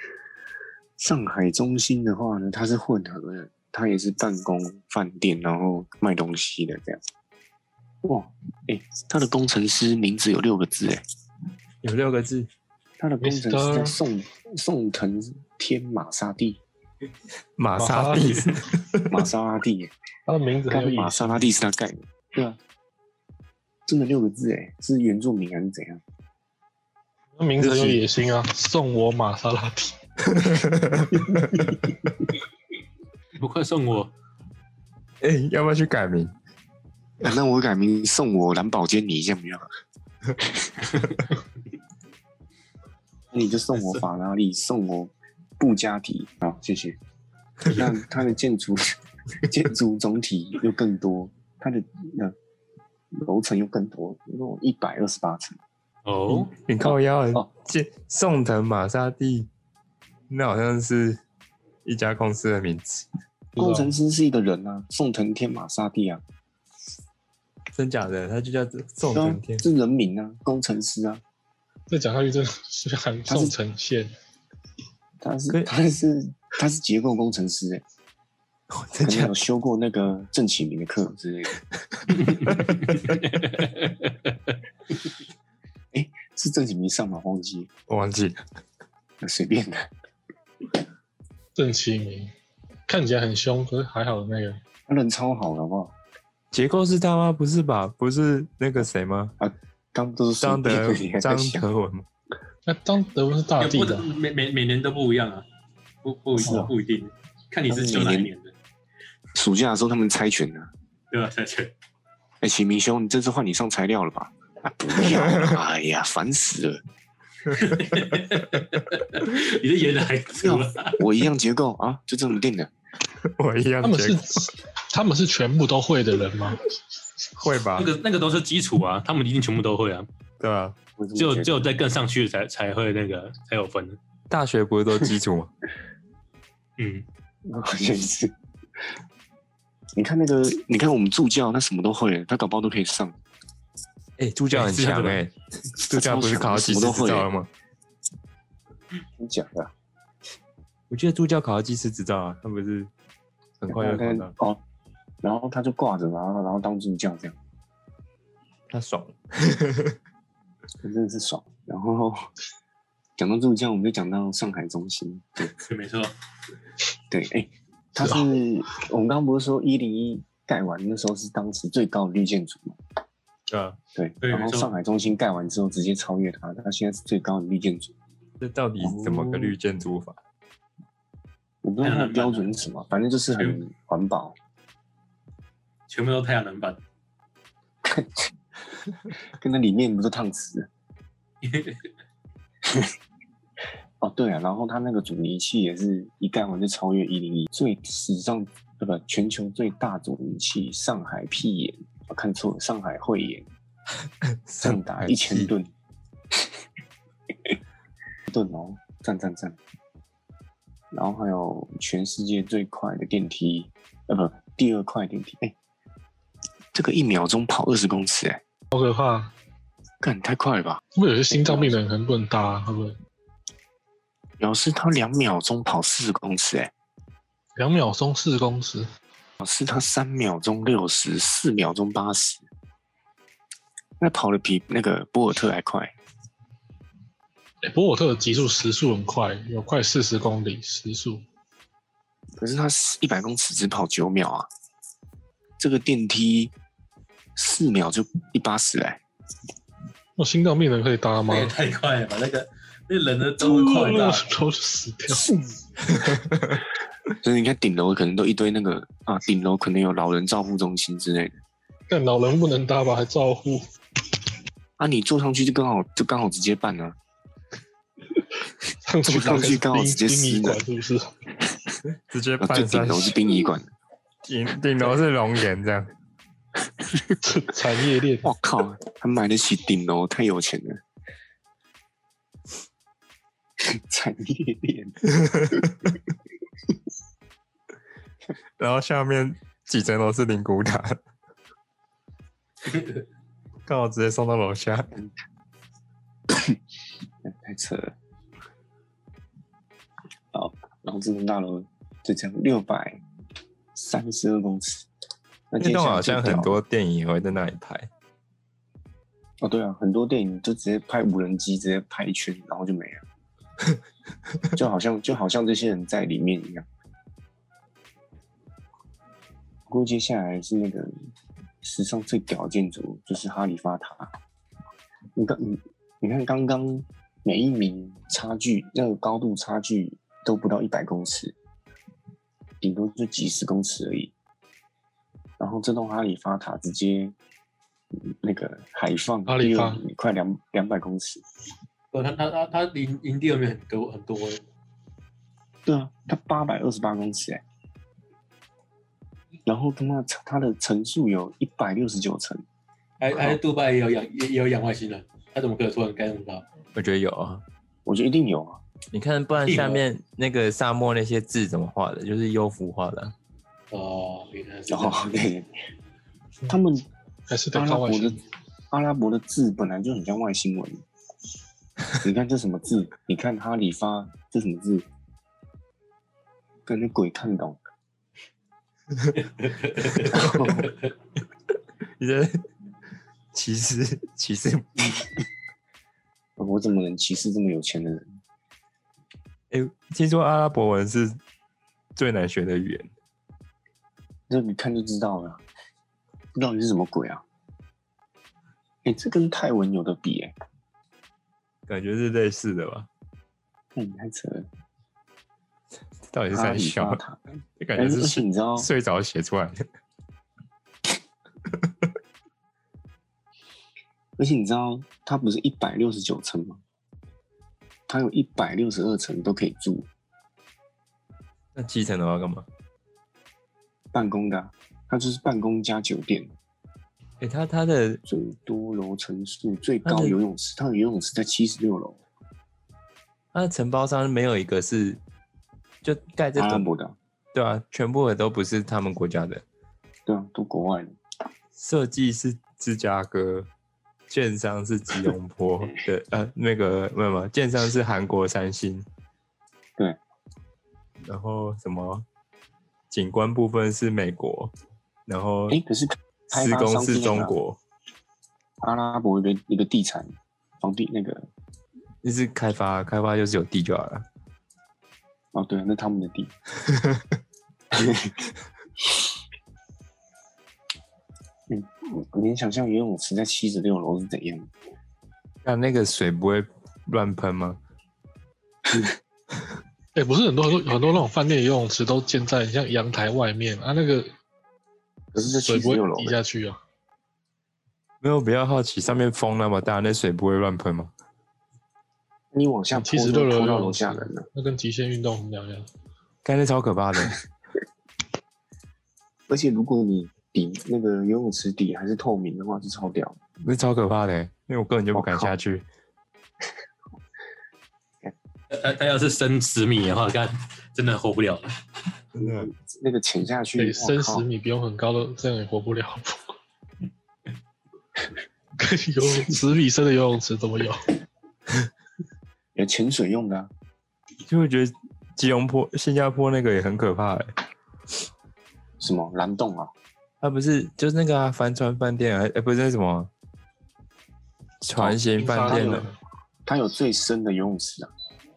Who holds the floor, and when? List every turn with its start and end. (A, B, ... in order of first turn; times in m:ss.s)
0:01.0-0:07.0 A
0:08.0-0:11.0 A
0:11.8-0:12.5 B
0:13.0-0:16.6 A
0:13.2-0:14.0 C
0:17.6-0:19.2 B
0:17.8-0:18.5 C
0:19.1-0:19.9 A
0:20.3-0:21.4 C
0:20.7-0:22.6 A
0:23.9-0:26.0 A
0:27.4-0:29.9 C
0:27.6-0:28.0 B
0:30.2-0:32.1 B
0:33.4-0:34.1 D
0:35.2-0:36.3 B
0:37.2-0:39.7 A
0:43.3-0:47.0 A
0:47.6-0:52.3 A
0:53.1-0:55.6 A
0:56.0-0:56.5 D
0:56.3-0:59.5 B
0:56.8-0:57.5 A
1:00.3-1:01.2 B
1:01.8-1:03.1 B
1:03.6-1:06.2 A
1:03.6-1:03.9 C
1:07.7-1:09.6 B
1:09.1-1:11.2 A
1:11.9-1:14.1 C
1:13.3-1:13.6 A
1:15.2-1:17.8 A
1:18.7-1:19.3 B
1:19.0-1:21.5 A
1:21.9-1:23.1 B
1:22.2-1:24.3 D
1:25.9-1:27.7 A
1:27.9-1:28.4 B
1:29.2-1:29.9 A
1:31.6-1:32.3 C
1:32.9-1:34.6 C
1:34.9-1:35.9 A
1:36.5-1:39.3 B
1:39.4-1:41.7 A
1:40.4-1:42.0 B
1:42.7-1:44.0 C
1:43.6-1:45.4 D
1:46.0-1:48.5 D
1:46.4-1:46.7 A
1:47.7-1:48.3 A
1:49.3-1:50.7 A
1:51.1-1:51.7 D
1:52.4-1:56.8 A
1:55.0-1:55.6 B
1:57.5-2:01.0 D
2:00.3-2:02.7 A
2:03.2-2:04.5 B
2:03.8-2:06.7 C
2:07.3-2:07.9 B
2:07.8-2:10.1 D
2:10.4-2:10.8 B
2:11.0-2:11.6 A
2:11.2-2:14.0 D
2:14.3-2:15.5 B
2:16.8-2:17.0 D
2:17.4-2:18.3 A
2:20.0-2:23.2 A
2:24.2-2:27.5 B
2:24.5-2:25.2 D
2:25.8-2:27.3 A
2:29.2-2:29.7 A
2:30.9-2:32.9 B
2:33.6-2:34.3 B
2:33.7-2:34.6 A
2:35.2-2:37.3 A
2:38.7-2:40.0 B
2:40.8-2:42.3 A
2:43.2-2:45.5 A
2:45.7-2:46.1 D
2:47.1-2:52.8 A
2:53.5-2:53.8 B
2:54.0-2:57.9 A
2:54.2-2:54.7 D
2:58.4-3:00.2 B
2:58.8-2:59.6 A
3:01.6-3:04.3 A
3:01.8-3:02.5 D
3:05.9-3:06.8 D
3:07.8-3:08.3 A
3:09.3-3:10.7 A
3:11.4-3:11.9 D
3:12.6-3:12.9 A
3:14.0-3:23.5 A
3:24.2-3:25.5 B
3:24.6-3:25.7 A
3:28.3-3:29.6 A
3:30.9-3:35.5 A
3:36.7-3:38.4 A
3:38.7-3:39.3 C
3:40.0-3:41.7 A
3:41.0-3:43.0 C
3:44.4-3:46.7 A
3:47.6-3:48.9 C
3:49.4-3:52.4 A
3:54.0-3:55.9 A
3:57.6-4:01.2 C
4:02.4-4:04.5 A
4:05.6-4:06.5 A
4:07.4-4:09.0 A
4:10.2-4:11.5 C
4:11.2-4:14.4 D
4:13.4-4:15.3 C
4:15.1-4:16.2 A
4:15.9-4:16.6 B
4:17.2-4:21.4 A
4:21.9-4:23.6 C
4:24.8-4:27.0 A
4:28.8-4:31.1 C
4:29.0-4:30.6 A
4:31.9-4:33.2 B
4:32.4-4:33.7 A
4:34.2-4:35.9 B
4:36.8-4:37.2 A
4:37.2-4:38.3 C
4:38.2-4:40.8 A
4:43.6-4:45.7 A
4:45.1-4:45.9 B
4:48.6-4:51.0 B
4:52.6-4:53.0 D
4:53.6-4:54.9 B
4:56.3-4:56.6 A
4:57.2-4:57.9 A
5:00.3-5:03.0 A
5:03.7-5:04.9 A
5:05.5-5:06.6 A
5:05.6-5:07.9 B
5:09.4-5:13.0 A
5:14.5-5:16.6 A
5:19.7-5:20.9 A
5:21.6-5:24.1 A
5:25.2-5:31.3 A
5:32.6-5:34.1 A
5:35.4-5:37.1 A
5:38.0-5:41.2 A
5:39.3-5:39.8 C
5:41.9-5:44.4 D
5:45.6-5:47.4 A
5:49.5-5:52.4 A
5:53.0-5:56.4 D
5:56.7-5:57.4 B
5:57.8-5:58.6 A
5:58.9-6:03.1 B
5:59.4-5:59.8 D
6:03.7-6:05.2 D
6:04.7-6:05.5 A
6:06.5-6:06.8 A
6:07.3-6:08.2 C
6:07.5-6:08.2 A
6:08.7-6:10.8 A
6:12.0-6:14.9 A
6:16.7-6:17.6 A
6:19.2-6:20.8 D
6:20.0-6:20.7 A
6:22.0-6:22.4 B
6:23.3-6:25.0 B
6:26.4-6:28.1 A
6:29.5-6:31.2 B
6:32.0-6:32.9 B
6:34.3-6:35.4 A
6:36.3-6:37.2 A
6:38.8-6:40.3 A
6:41.7-6:42.9 B
6:43.7-6:44.5 A
6:46.1-6:47.0 B
6:46.3-6:48.7 A
6:47.6-6:49.7 B
6:51.5-6:51.9 B
6:54.2-6:56.6 A
6:57.9-6:59.9 A
7:01.5-7:02.4 B
7:03.9-7:06.3 A
7:07.2-7:08.0 B
7:08.1-7:12.0 A
7:09.8-7:10.2 B
7:13.3-7:15.0 B
7:15.8-7:16.6 B
7:16.4-7:17.0 A
7:17.3-7:19.4 B
7:20.1-7:21.0 A
7:21.6-7:23.5 B
7:24.1-7:28.8 B
7:31.0-7:32.0 B
7:32.9-7:34.5 B
7:35.1-7:35.6 B
7:35.5-7:37.3 A
7:36.3-7:37.6 B
7:38.6-7:41.3 A
7:42.0-7:44.0 B
7:45.3-7:46.3 A
7:46.6-7:47.1 B
7:47.7-7:48.1 A
7:51.5-7:54.5 A
7:55.4-7:57.6 B
7:59.9-8:04.1 C
8:05.1-8:06.2 A
8:05.2-8:06.6 C
8:08.0-8:10.9 B
8:12.3-8:14.3 A
8:12.7-8:15.7 C
8:16.2-8:17.2 B
8:19.3-8:23.2 A
8:23.4-8:25.6 B
8:24.9-8:25.3 A
8:28.5-8:31.5 D
8:32.1-8:32.5 B
8:32.2-8:34.2 A
8:33.6-8:36.3 C
8:38.6-8:40.9 C
8:42.6-8:43.5 A
8:44.3-8:47.3 B
8:48.8-8:49.7 A
8:50.2-8:53.1 B
8:54.6-8:55.8 B
8:54.8-8:55.9 A
8:55.2-8:55.9 C
8:56.4-8:57.9 A